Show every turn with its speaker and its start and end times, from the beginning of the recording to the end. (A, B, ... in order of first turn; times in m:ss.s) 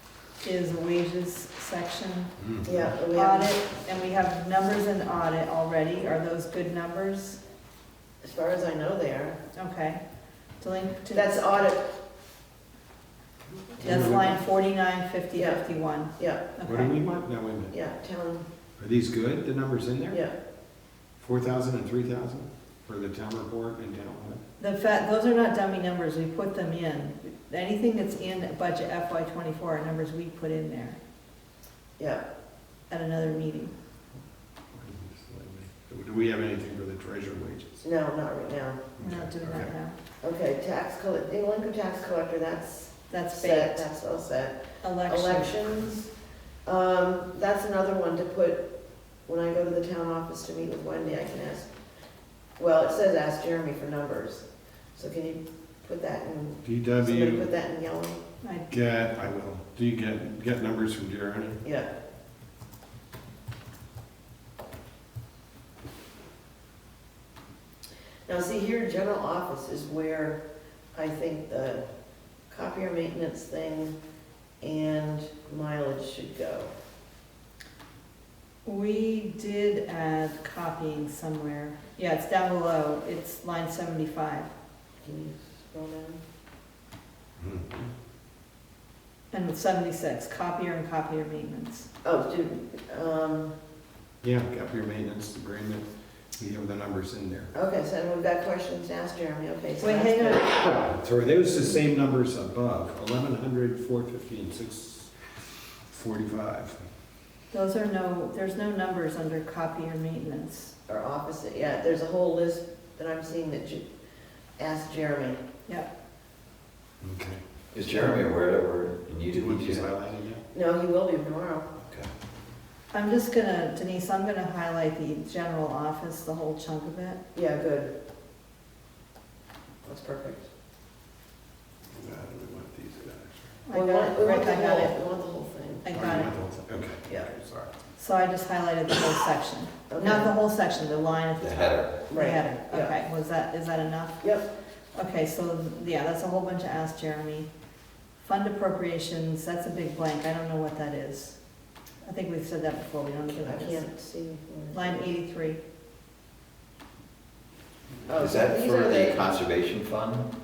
0:00.4-0:02.3 A
0:02.4-0:02.9 B
0:02.6-0:03.5 C
0:03.1-0:07.4 A
0:08.2-0:09.4 C
0:09.5-0:10.0 A
0:10.6-0:11.4 A
0:11.1-0:11.8 C
0:13.7-0:14.4 B
0:13.8-0:16.9 A
0:15.4-0:15.6 C
0:16.2-0:16.5 C
0:16.6-0:17.7 B
0:17.7-0:18.4 C
0:18.8-0:20.2 B
0:21.2-0:24.4 B
0:24.6-0:31.0 A
0:32.0-0:32.2 C
0:32.9-0:33.7 A
0:34.7-0:37.8 B
0:37.8-0:38.9 C
0:39.0-0:39.7 B
0:39.0-0:40.0 A
0:40.2-0:46.1 C
0:43.1-0:43.9 A
0:44.8-0:45.8 A
0:46.6-0:48.7 C
0:49.2-0:51.7 C
0:52.6-0:58.2 C
0:56.6-0:57.5 B
0:58.4-0:58.7 A
0:58.7-1:01.6 B
1:01.6-1:01.9 C
1:08.3-1:10.4 C
1:10.9-1:11.8 C
1:12.5-1:14.0 C
1:14.6-1:16.7 C
1:18.6-1:24.5 A
1:25.0-1:26.2 C
1:27.4-1:27.9 B
1:29.3-1:31.9 A
1:32.0-1:33.5 C
1:34.2-1:37.5 B
1:37.5-1:40.6 C
1:39.8-1:40.4 A
1:40.4-1:45.1 B
1:45.9-1:46.8 B
1:47.5-1:50.7 A
1:50.9-1:53.8 C
1:54.6-1:55.4 C
1:57.0-1:58.2 B
1:57.7-1:59.9 D
1:59.3-2:00.4 B
2:00.5-2:01.7 C
2:01.8-2:02.1 D
2:02.9-2:07.2 A
2:07.3-2:07.9 C
2:09.8-2:10.4 C
2:11.9-2:13.6 B
2:13.6-2:14.9 A
2:13.7-2:15.9 C
2:15.8-2:16.3 A
2:15.9-2:17.7 B
2:18.0-2:24.4 A
2:19.9-2:20.3 C
2:21.4-2:22.0 D
2:22.1-2:23.0 C
2:24.2-2:24.5 C
2:24.9-2:27.5 A
2:28.2-2:31.4 A
2:32.0-2:33.9 A
2:33.3-2:35.1 C
2:34.7-2:35.6 A
2:38.1-2:39.4 C
2:38.2-2:40.3 D